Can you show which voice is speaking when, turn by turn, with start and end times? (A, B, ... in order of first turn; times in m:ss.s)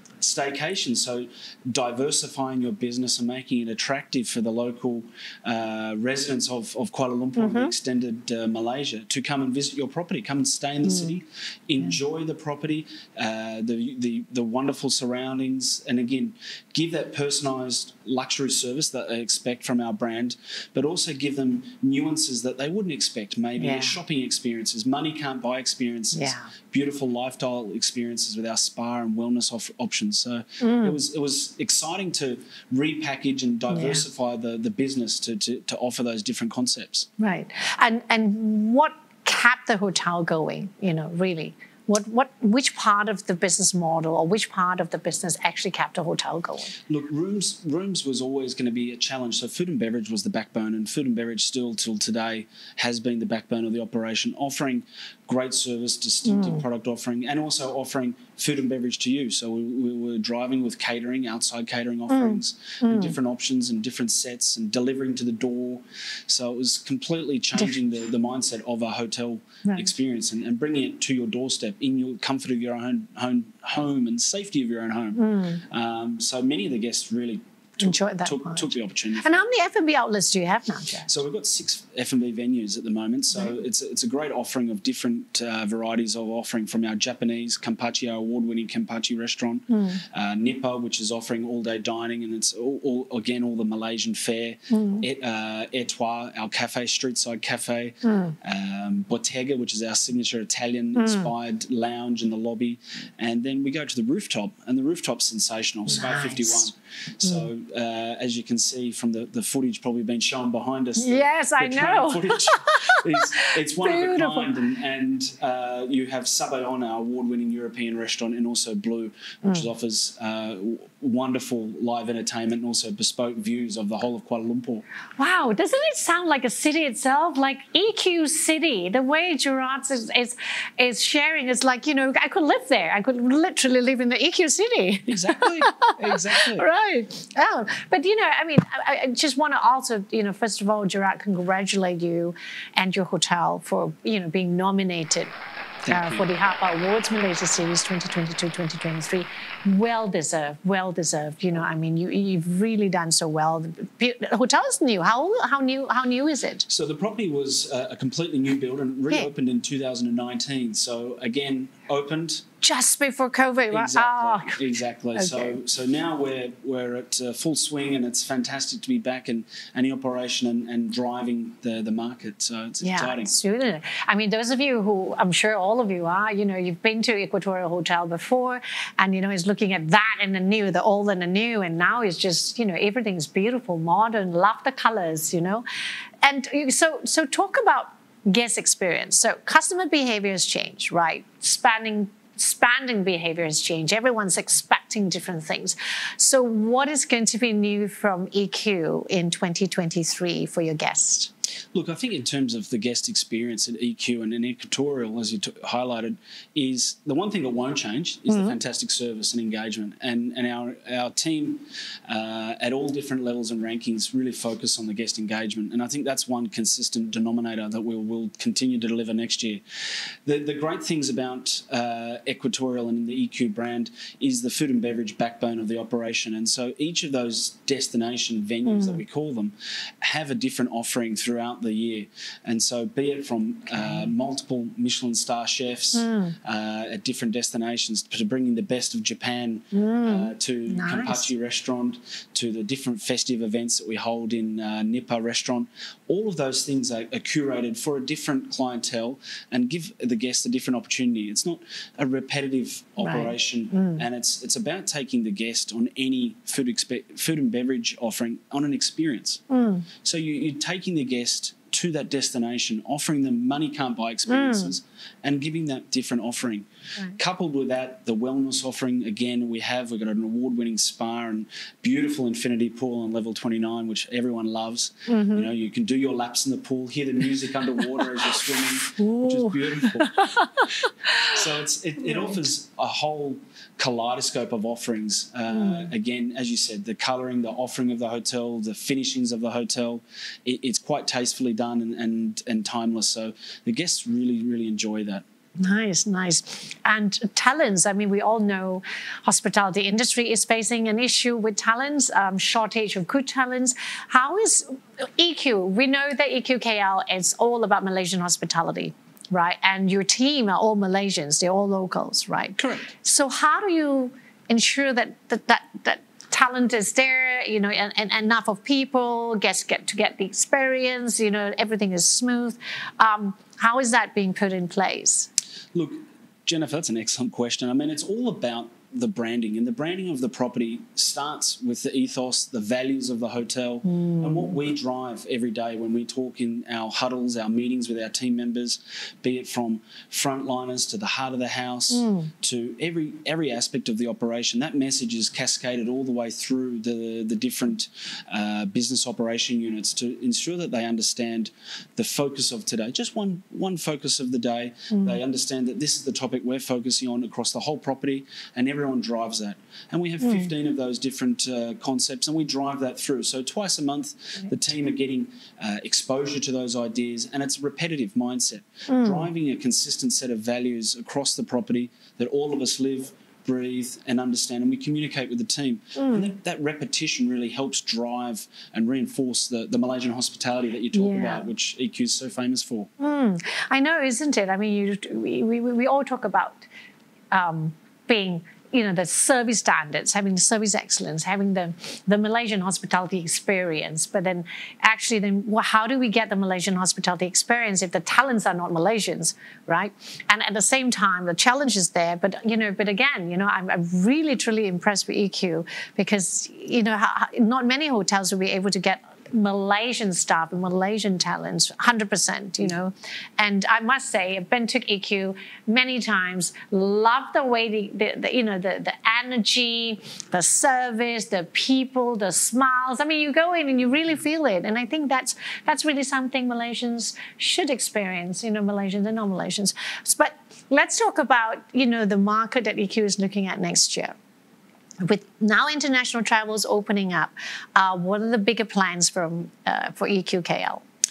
0:00.2-0:37.1 A
0:07.4-0:07.7 B
0:10.8-0:11.1 B
0:23.6-0:24.0 B
0:26.1-0:26.5 B
0:30.6-0:31.0 B
0:33.7-0:34.0 B
0:37.2-0:46.7 B
0:46.9-1:19.3 A
0:56.2-0:56.6 B
1:02.1-1:03.1 B
1:15.2-1:15.6 B
1:17.8-1:21.1 B
1:21.0-2:04.8 A
1:29.7-1:30.0 B
1:34.7-1:35.0 B
1:38.0-1:38.4 B
1:41.0-1:41.3 B
1:45.9-1:46.7 B
1:51.0-1:54.5 B
2:05.2-2:25.3 B
2:15.1-2:16.7 A
2:25.8-2:26.3 A
2:25.9-2:36.7 B
2:36.7-2:42.4 A
2:42.6-2:45.6 B
2:43.7-2:53.3 A
2:52.8-3:05.6 B
3:06.2-3:21.3 B
3:21.7-3:39.6 A
3:40.2-4:19.4 A
3:48.6-3:49.0 B
3:53.8-3:54.1 B
3:55.9-3:56.4 B
3:59.7-4:01.3 B
4:13.0-4:14.0 B
4:19.5-4:19.8 B
4:20.0-4:40.2 A
4:24.3-4:24.7 B
4:35.1-4:35.5 B
4:39.0-4:41.4 B
4:41.2-4:55.2 A
4:45.5-4:45.9 B
4:55.6-5:25.3 B
5:12.6-5:12.9 A
5:25.7-6:22.9 A
5:33.8-5:34.6 B
5:41.9-5:42.3 B
6:00.2-6:00.5 B
6:08.9-6:09.3 B
6:16.0-6:16.3 B
6:20.9-6:21.4 B
6:23.0-6:26.6 B
6:27.3-7:14.1 B
7:15.0-7:20.8 B